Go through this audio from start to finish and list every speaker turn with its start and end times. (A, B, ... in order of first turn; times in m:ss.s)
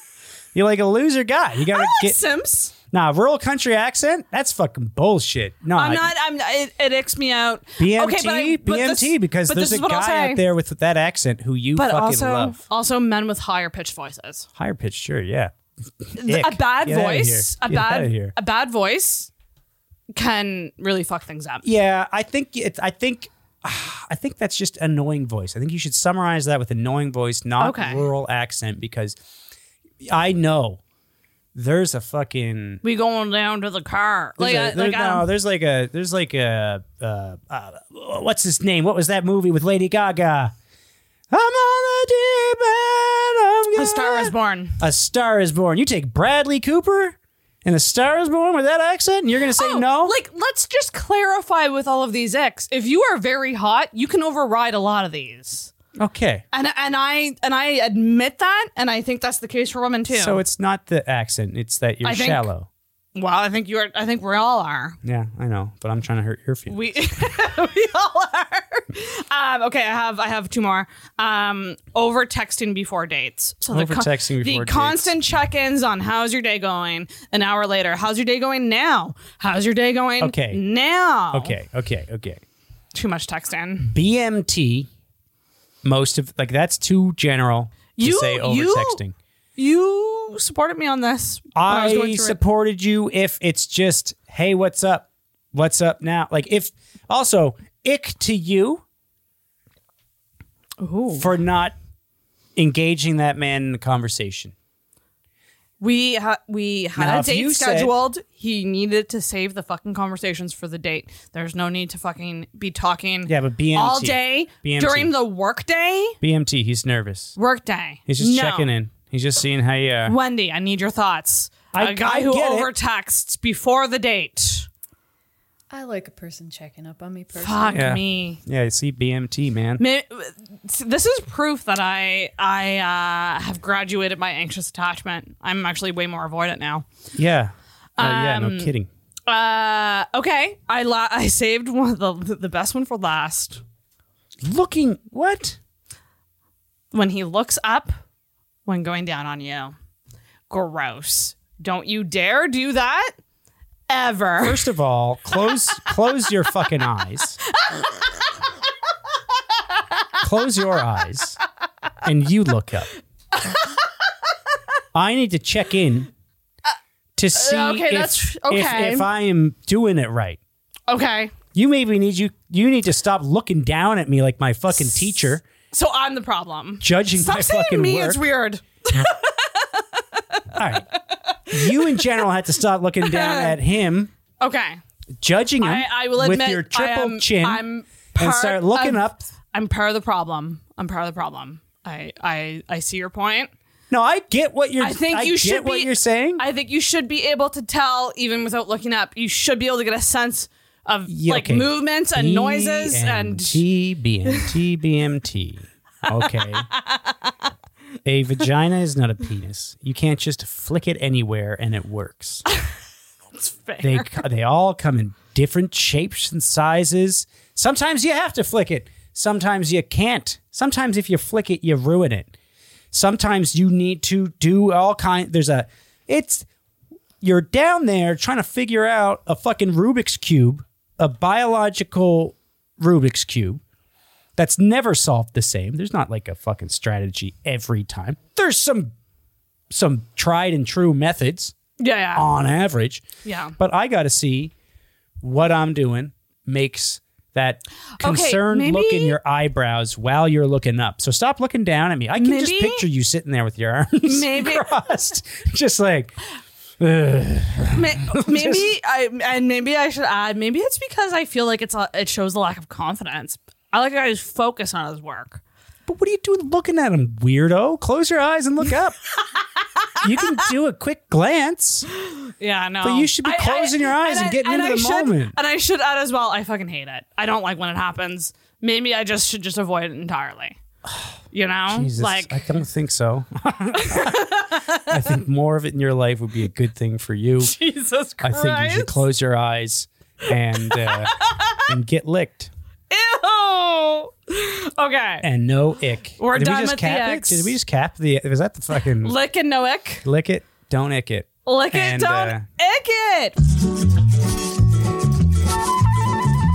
0:00.5-0:02.2 A
0:01.7-0:02.7 B
0:02.9-0:06.1 A
0:05.7-0:10.4 B
0:07.8-0:12.6 A
0:11.7-0:14.5 B
0:14.6-0:15.5 A
0:16.0-0:18.3 A
0:16.2-0:19.3 B
0:20.1-0:21.6 B
0:21.6-0:29.2 A
0:27.6-0:28.1 B
0:30.0-0:30.8 A
0:31.5-0:32.8 A
0:32.8-0:35.3 B
0:34.4-0:40.5 A
0:41.3-0:50.1 A
0:43.7-0:44.8 B
0:49.5-0:55.7 B
0:56.0-0:56.4 A
0:56.5-1:00.4 B
1:00.1-1:02.7 A
1:02.0-1:02.5 B
1:03.1-1:05.0 B
1:05.0-1:06.8 A
1:06.7-1:21.5 B
1:13.7-1:15.2 A
1:20.2-1:20.6 A
1:21.3-1:22.4 A
1:22.9-1:23.9 B
1:23.8-1:24.9 A
1:25.8-1:29.1 A
1:28.0-1:29.0 B
1:29.6-1:32.4 B
1:31.5-1:38.8 A
1:40.8-1:41.3 B
1:41.2-1:41.7 A
1:42.6-1:44.5 A
1:45.8-1:56.2 B
1:47.0-1:47.9 A
1:53.2-1:55.2 A
1:56.2-1:57.3 A
1:57.4-1:58.7 B
1:58.1-2:00.2 A
2:00.0-2:04.7 B
2:01.7-2:02.7 A
2:05.7-2:07.9 C
2:07.4-2:08.4 B
2:07.7-2:09.8 A
2:09.8-2:16.8 B
2:17.1-2:18.9 A
2:18.0-2:18.7 B
2:19.2-2:23.6 B
2:24.4-2:25.6 A
2:26.9-2:27.9 B
2:28.6-2:29.7 B
2:30.5-2:33.2 B
2:33.9-2:34.7 B
2:34.4-2:37.4 A
2:37.5-2:38.2 B
2:40.2-2:41.4 A
2:42.0-2:42.9 A
2:43.4-2:43.6 B
2:44.9-2:46.1 A
2:47.2-2:50.4 A
2:47.3-2:49.1 B
2:50.9-2:51.4 B
2:51.5-2:55.4 A
2:54.7-3:01.0 B
2:56.8-2:58.2 A
3:00.5-3:00.8 A
3:01.5-3:02.1 B
3:01.5-3:04.1 A
3:03.0-3:03.6 B
3:04.4-3:04.8 B
3:05.2-3:07.6 A
3:05.6-3:13.5 B
3:08.2-3:09.2 A
3:13.9-3:16.4 A
3:14.8-3:23.6 B
3:21.1-3:26.7 A
3:26.2-3:27.3 B
3:28.0-3:32.4 A
3:33.3-3:34.2 B
3:33.8-3:42.3 A
3:42.9-3:46.5 A
3:47.2-3:53.6 A
3:54.4-3:58.9 A
3:59.7-4:01.6 A
4:01.8-4:02.3 B
4:02.1-4:03.0 A
4:03.2-4:03.6 B
4:03.6-4:04.5 A
4:05.2-4:16.1 A
4:08.0-4:09.2 B
4:12.2-4:12.8 B
4:14.0-4:14.7 B
4:16.8-4:18.6 A
4:17.7-4:25.4 B
4:25.9-4:29.0 A
4:30.0-4:31.9 A
4:32.0-4:40.6 B
4:32.8-4:35.3 A
4:41.3-4:42.4 B
4:41.7-4:44.3 A
4:43.8-4:45.1 B
4:44.9-4:47.5 A
4:47.4-4:49.0 B
4:48.2-4:52.5 A
4:50.7-4:51.6 B
4:52.9-4:55.2 B
4:55.2-4:59.2 A
4:56.2-4:57.6 B
4:59.0-5:00.0 B
5:00.0-5:02.4 A
5:01.4-5:03.4 B